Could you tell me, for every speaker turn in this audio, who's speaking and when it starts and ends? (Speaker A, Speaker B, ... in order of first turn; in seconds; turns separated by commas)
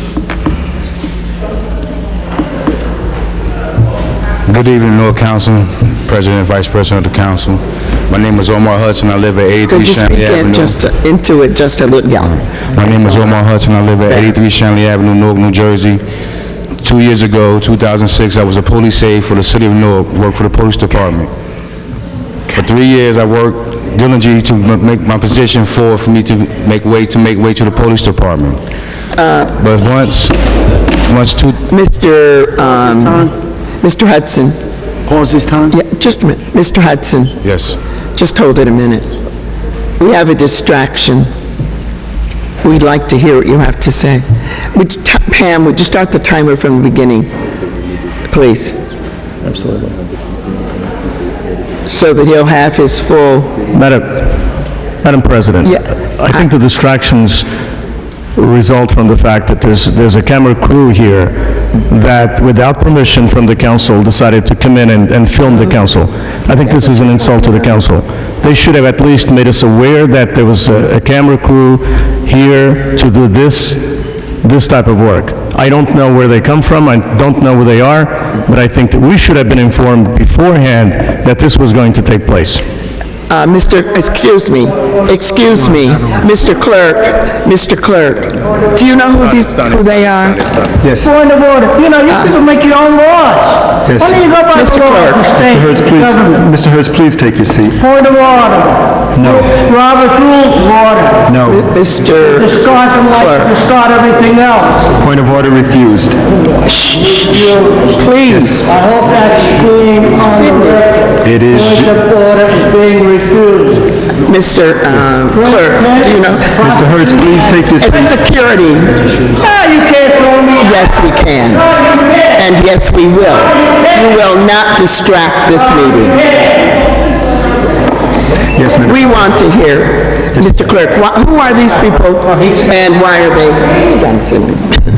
Speaker A: 4.5-10.8, Speaker B: 9.7-12.6, Speaker A: 12.6-16.0, Speaker A: 16.8-21.3, Speaker A: 22.5-28.6, Speaker B: 29.1-29.6, Speaker A: 29.6-30.3, Speaker A: 31.1-31.6, Speaker B: 31.7-34.6, Speaker B: 35.7-37.4, Speaker A: 37.4-37.8, Speaker B: 38.1-39.1, Speaker B: 40.0-41.3, Speaker B: 42.6-47.3, Speaker B: 48.3-48.8, Speaker C: 49.4-49.9, Speaker B: 51.9-53.5, Speaker C: 53.7-54.5, Speaker C: 55.0-57.5, Speaker C: 58.3-82.6, Speaker B: 83.3-90.7, Speaker D: 90.8-91.1, Speaker E: 91.0-96.2, Speaker B: 92.1-92.3, Speaker D: 93.8-94.3, Speaker B: 94.4-95.3, Speaker D: 95.3-97.8, Speaker E: 97.8-101.2, Speaker D: 99.1-99.6, Speaker D: 101.3-101.6, Speaker B: 101.4-103.6, Speaker E: 102.6-104.8, Speaker D: 104.8-106.2, Speaker B: 106.7-108.7, Speaker D: 108.3-108.7, Speaker E: 108.8-110.8, Speaker B: 110.1-110.9, Speaker D: 111.2-112.0, Speaker E: 111.8-113.9, Speaker B: 114.1-116.6, Speaker D: 116.6-118.2, Speaker B: 117.8-119.3, Speaker E: 119.4-120.5, Speaker B: 120.5-126.3, Speaker D: 128.5-129.4, Speaker B: 128.8-134.8